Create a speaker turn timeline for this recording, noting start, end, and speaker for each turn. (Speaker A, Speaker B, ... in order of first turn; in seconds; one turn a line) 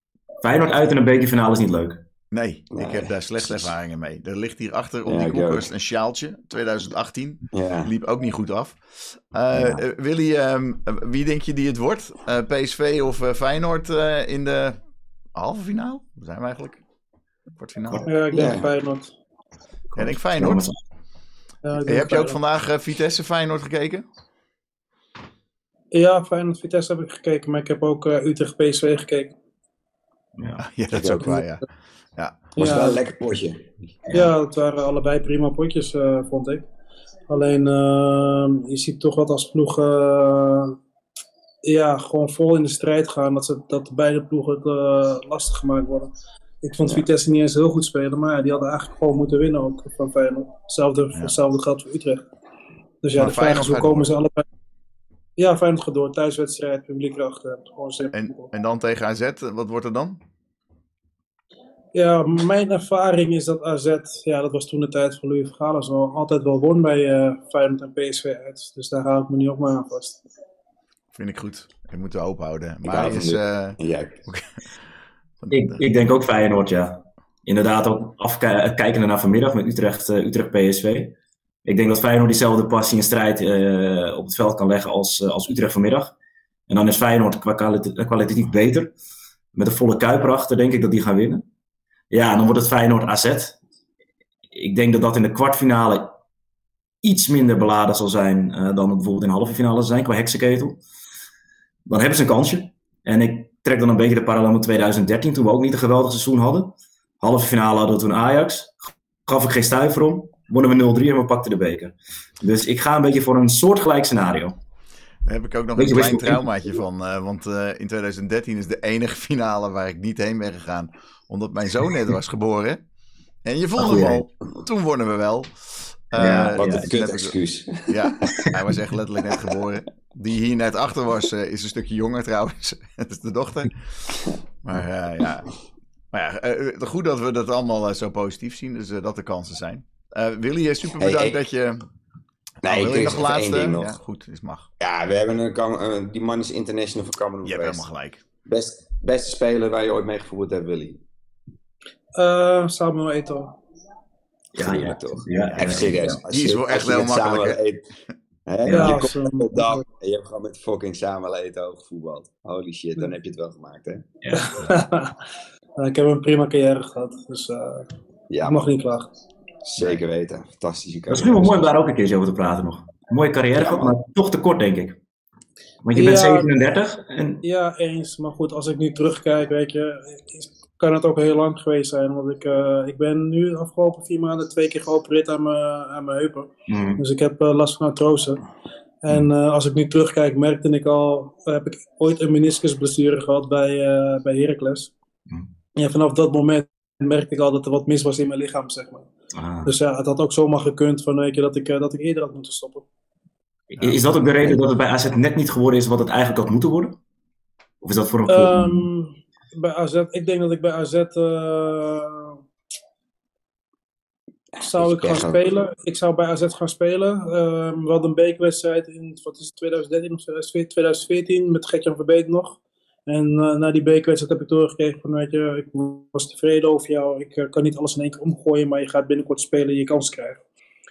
Speaker A: 0.4-2.0
Speaker B: 2.3-14.8
Speaker C: 2.7-3.7
Speaker C: 5.0-5.7
Speaker C: 7.5-7.9
Speaker C: 9.5-9.8
Speaker B: 15.3-16.8
Speaker B: 17.6-18.1
Speaker D: 18.0-19.1
Speaker C: 18.3-18.7
Speaker B: 19.9-20.6
Speaker A: 20.0-20.8
Speaker D: 21.6-22.4
Speaker B: 21.9-24.0
Speaker D: 25.9-29.3
Speaker A: 30.4-30.6
Speaker B: 30.6-31.6
Speaker C: 30.9-31.4
Speaker B: 32.1-32.5
Speaker C: 32.5-33.8
Speaker D: 32.6-33.0
Speaker D: 34.1-36.6
Speaker D: 37.3-40.8
Speaker D: 41.6-46.1
Speaker D: 46.6-52.3
Speaker D: 53.0-54.4
Speaker B: 53.1-54.1
Speaker D: 55.4-58.5
Speaker B: 58.1-60.2
Speaker D: 61.9-70.2
Speaker B: 71.1-74.5
Speaker C: 72.8-74.2
Speaker B: 75.4-75.8
Speaker A: 75.5-86.1
Speaker A: 86.7-88.9
Speaker A: 89.5-91.4
Speaker A: 92.1-93.6
Speaker A: 94.5-96.2
Speaker A: 97.0-100.8
Speaker A: 101.8-114.6
Speaker B: 115.2-122.8
Speaker A: 115.8-116.4
Speaker B: 123.4-135.5
Speaker A: 123.8-124.2
Speaker A: 126.1-126.9
Speaker C: 126.2-128.6
Speaker B: 136.1-141.8
Speaker C: 141.0-141.4
Speaker C: 142.6-143.9
Speaker B: 142.6-144.7
Speaker C: 144.8-147.8
Speaker B: 147.4-148.2
Speaker C: 148.4-151.0
Speaker D: 152.1-153.6
Speaker A: 154.5-156.2
Speaker C: 154.5-157.8
Speaker B: 155.4-157.6
Speaker C: 158.5-164.1
Speaker A: 158.6-159.0
Speaker D: 158.7-159.8
Speaker A: 164.2-164.6
Speaker D: 164.3-165.2
Speaker D: 165.8-167.9
Speaker C: 168.3-168.7
Speaker D: 168.4-169.1
Speaker C: 169.6-171.7
Speaker A: 171.1-175.0
Speaker C: 173.6-173.9
Speaker A: 175.8-177.4
Speaker D: 175.9-176.5
Speaker D: 177.4-188.4
Speaker A: 186.7-187.0
Speaker D: 189.0-194.9
Speaker D: 195.8-199.1
Speaker A: 199.3-199.7
Speaker D: 199.6-202.8
Speaker A: 203.7-207.0
Speaker A: 207.8-208.9
Speaker D: 208.3-212.4
Speaker C: 214.6-215.4
Speaker D: 214.6-230.4